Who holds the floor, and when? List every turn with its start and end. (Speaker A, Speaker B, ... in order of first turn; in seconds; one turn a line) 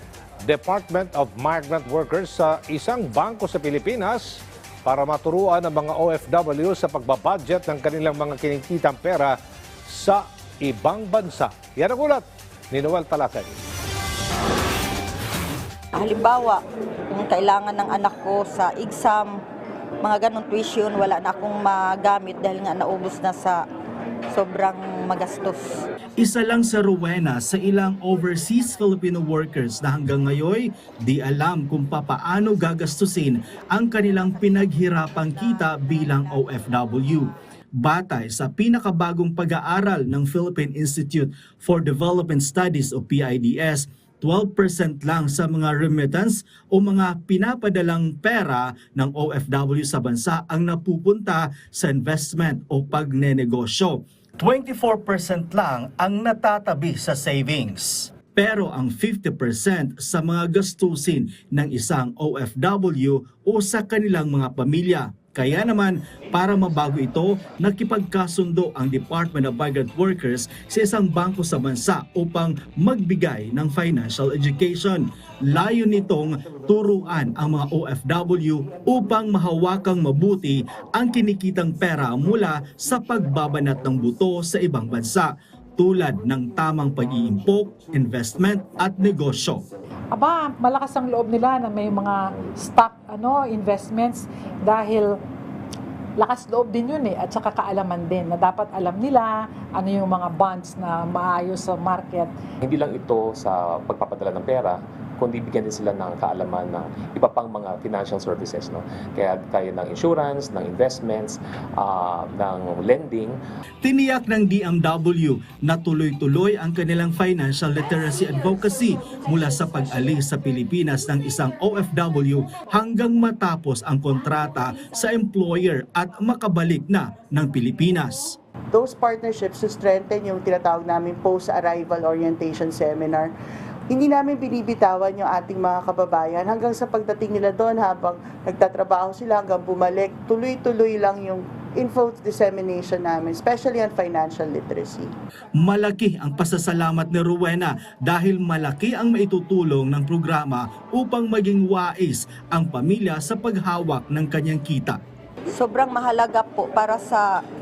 Speaker A: 0.4-9.4
Speaker A: 9.9-13.5
Speaker B: 15.9-19.4
Speaker B: 20.0-23.6
Speaker B: 24.3-25.8
Speaker C: 26.2-89.7
Speaker D: 90.1-95.1
Speaker D: 96.2-102.3
Speaker E: 102.6-113.4
Speaker C: 113.8-128.4
Speaker F: 128.7-133.3
Speaker F: 133.9-145.1
Speaker C: 145.6-155.0
Speaker B: 155.5-157.3